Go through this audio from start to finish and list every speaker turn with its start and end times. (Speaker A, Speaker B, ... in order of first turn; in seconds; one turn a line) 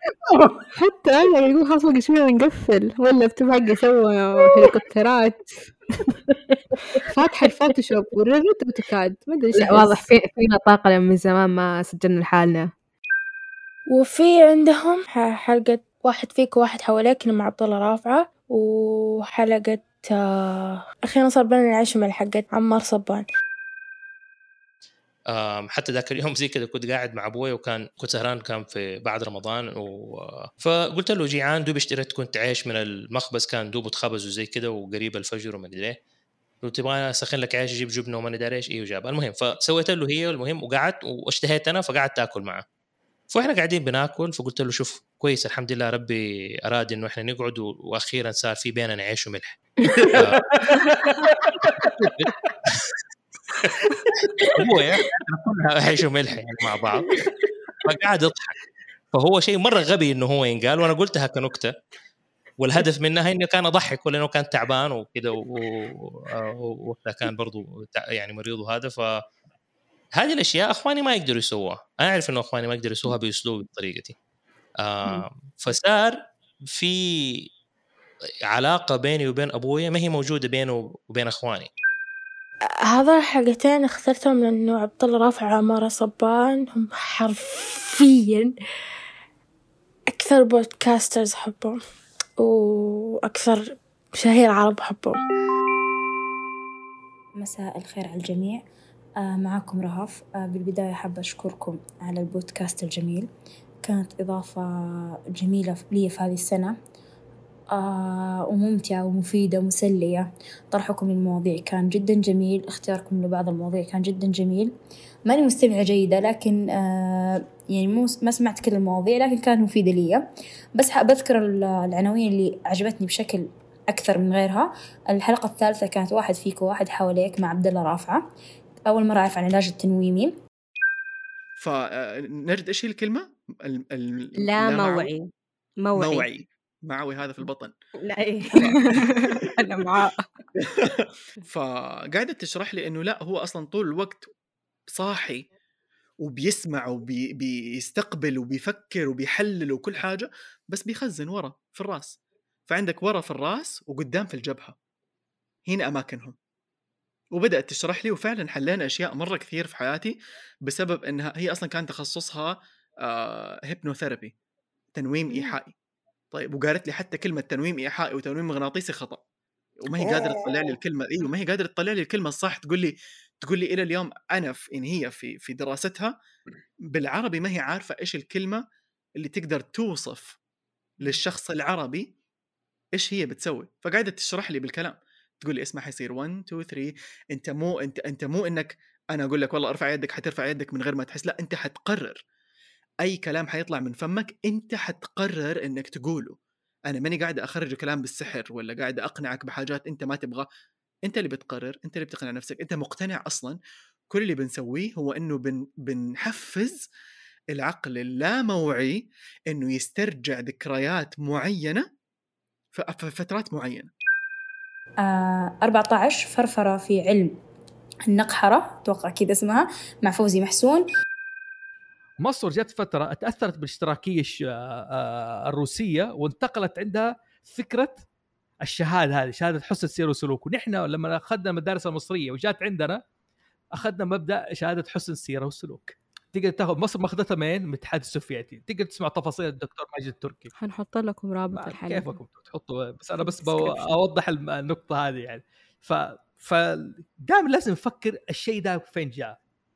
Speaker A: 0.7-5.5
Speaker A: 7.2-7.7
Speaker B: 7.4-8.3
Speaker A: 8.6-10.1
Speaker B: 9.5-12.7
Speaker C: 13.9-23.3
Speaker D: 25.3-36.0
Speaker D: 36.6-42.6
Speaker D: 43.3-50.5
Speaker D: 54.6-57.1
Speaker D: 57.9-58.5
Speaker D: 59.1-61.7
Speaker D: 62.6-69.2
Speaker D: 70.2-74.2
Speaker D: 74.8-76.2
Speaker D: 76.7-77.5
Speaker D: 78.5-81.7
Speaker C: 82.9-88.5
Speaker C: 90.1-91.8
Speaker C: 92.4-95.2
Speaker E: 97.4-98.6
Speaker E: 99.2-103.3
Speaker E: 103.8-106.8
Speaker E: 107.7-114.7
Speaker E: 115.3-128.2
Speaker E: 128.9-130.4
Speaker F: 131.6-135.1
Speaker B: 134.4-135.2
Speaker B: 135.9-136.3
Speaker F: 135.9-137.7
Speaker B: 138.1-138.6
Speaker A: 138.6-140.1
Speaker F: 141.5-144.3
Speaker F: 144.9-145.5
Speaker F: 146.2-154.8
Speaker F: 155.7-156.3
Speaker F: 157.3-160.2
Speaker F: 160.7-162.6
Speaker F: 163.1-164.3
Speaker F: 164.9-165.7
Speaker F: 166.3-169.2
Speaker F: 169.8-176.1
Speaker F: 176.9-178.6
Speaker F: 179.2-180.4
Speaker F: 181.0-182.1
Speaker F: 183.0-192.2
Speaker F: 193.0-196.4
Speaker F: 196.9-200.5
Speaker F: 201.1-203.6
Speaker F: 204.1-206.8
Speaker F: 207.5-211.8
Speaker F: 212.7-213.9
Speaker E: 215.0-217.4
Speaker E: 218.1-220.9
Speaker G: 222.2-228.0
Speaker G: 228.7-233.0
Speaker G: 233.8-240.5
Speaker A: 240.6-242.1
Speaker G: 241.5-249.4
Speaker A: 243.2-243.8